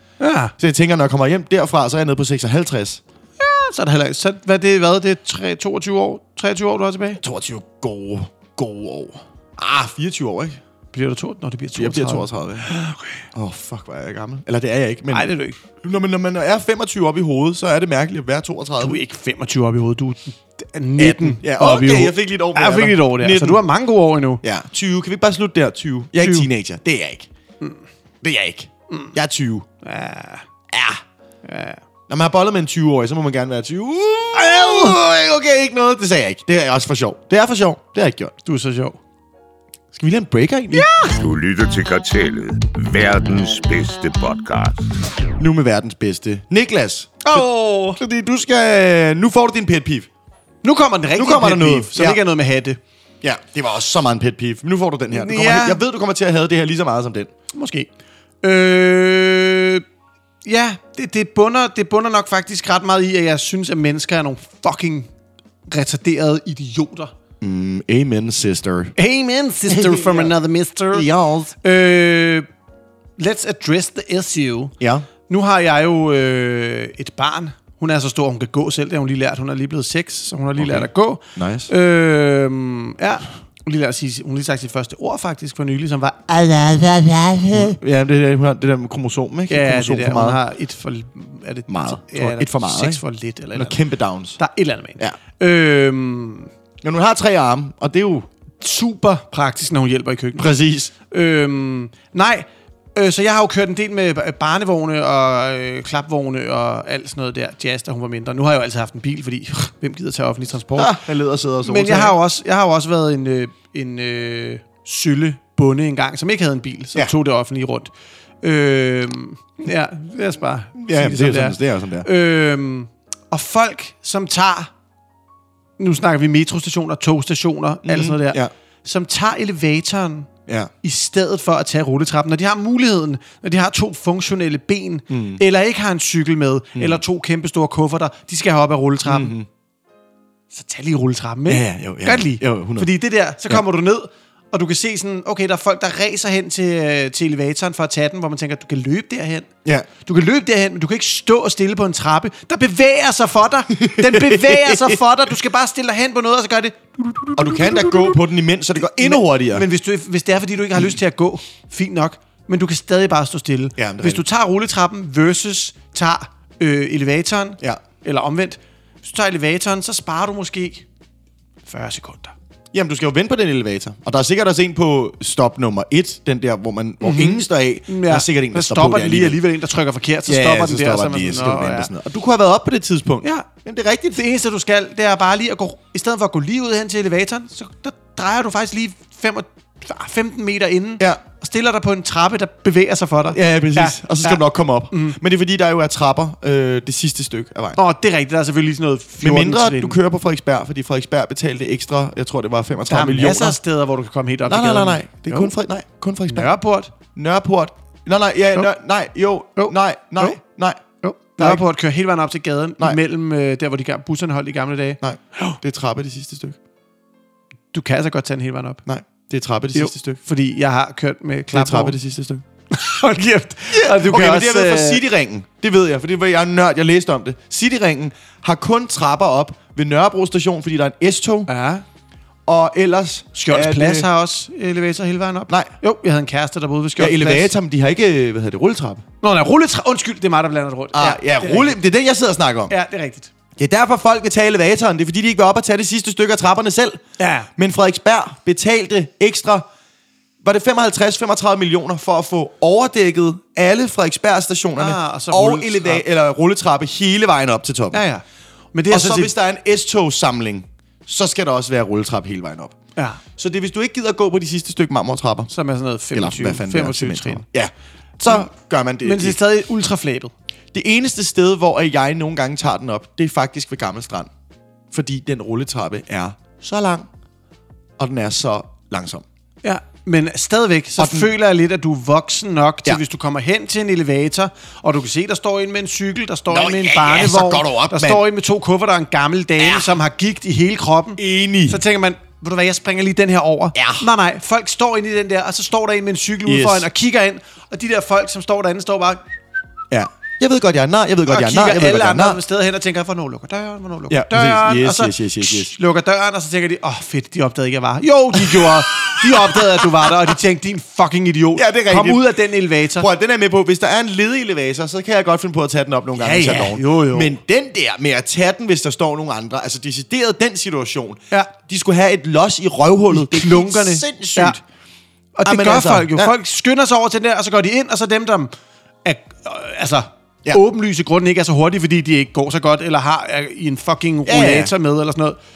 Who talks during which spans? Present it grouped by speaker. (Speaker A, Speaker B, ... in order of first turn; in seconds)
Speaker A: 0.2-0.5, 3.4-7.2, 10.9-13.3, 15.1-15.6, 18.8-24.4, 26.2-26.5, 28.9-29.1, 29.8-30.4, 31.4-31.8, 34.4-34.9, 38.5-39.0, 40.7-41.1, 47.2-48.0, 50.6-52.8, 55.1-55.8, 57.5-57.9, 58.4-59.8, 60.4-65.1, 65.7-67.1, 69.0-71.1, 71.6-72.5, 73.2-74.8, 75.3-87.8, 89.5-93.8, 94.4-96.5, 98.6-111.0, 111.6-117.9, 118.4-124.7, 125.8-130.3, 130.8-139.3, 140.5-149.5, 150.0-158.2, 158.8-170.9, 171.7-172.3, 177.0-181.9, 184.1-195.2, 197.8-200.0, 202.9-205.6, 206.3-206.9, 209.6-210.4, 211.0-215.6, 217.7-218.8, 219.7-222.0, 222.7-225.0, 231.5-231.8, 233.3-237.5, 239.2-241.8, 242.7-243.3, 247.2-247.5, 254.8-256.0, 257.9-259.3, 263.0-263.2, 265.5-267.5, 269.0-270.3, 279.6-299.2, 301.3-313.1, 316.2-317.4, 323.1-324.6, 325.4-328.5, 329.1-335.4
Speaker B: 0.6-3.0, 7.2-10.6, 11.8-12.7, 13.3-19.0, 21.0-23.6, 24.4-27.3, 28.2-29.7, 30.7-31.0, 32.1-38.3, 39.9-40.9, 45.4-50.1, 51.2-52.2, 53.2-57.3, 67.4-68.9, 69.7-70.3, 70.9-71.5, 74.8-75.1, 80.6-81.7, 87.5-90.4, 91.7-93.0, 93.5-94.4, 96.8-98.3, 100.4-100.9, 110.8-112.2, 120.8-122.1, 127.8-128.5, 130.5-130.7, 135.1-135.4, 136.8-137.0, 139.1-139.5, 141.5-142.9, 153.8-155.0, 157.4-159.7, 163.8-164.2, 172.7-179.4, 180.3-184.2, 193.3-197.8, 199.2-203.6, 204.5-206.5, 207.2-210.8, 211.4-211.6, 215.0-216.6, 218.9-220.2, 221.5-222.4, 223.7-231.5, 232.5-234.1, 237.0-239.0, 240.9-242.7, 243.6-247.0, 247.6-249.7, 250.4-258.0, 258.9-262.8, 263.4-265.5, 266.1-269.4, 270.7-274.3, 274.9-277.1, 278.0-279.2, 281.0-281.3, 286.5-288.2, 289.6-289.9, 291.2-291.8, 293.8-294.1, 296.5-296.9, 299.9-302.4, 304.1-305.7, 308.3-310.3, 311.6-312.4, 313.0-324.6, 325.4-326.3, 334.3-334.7
Speaker C: 41.1-44.9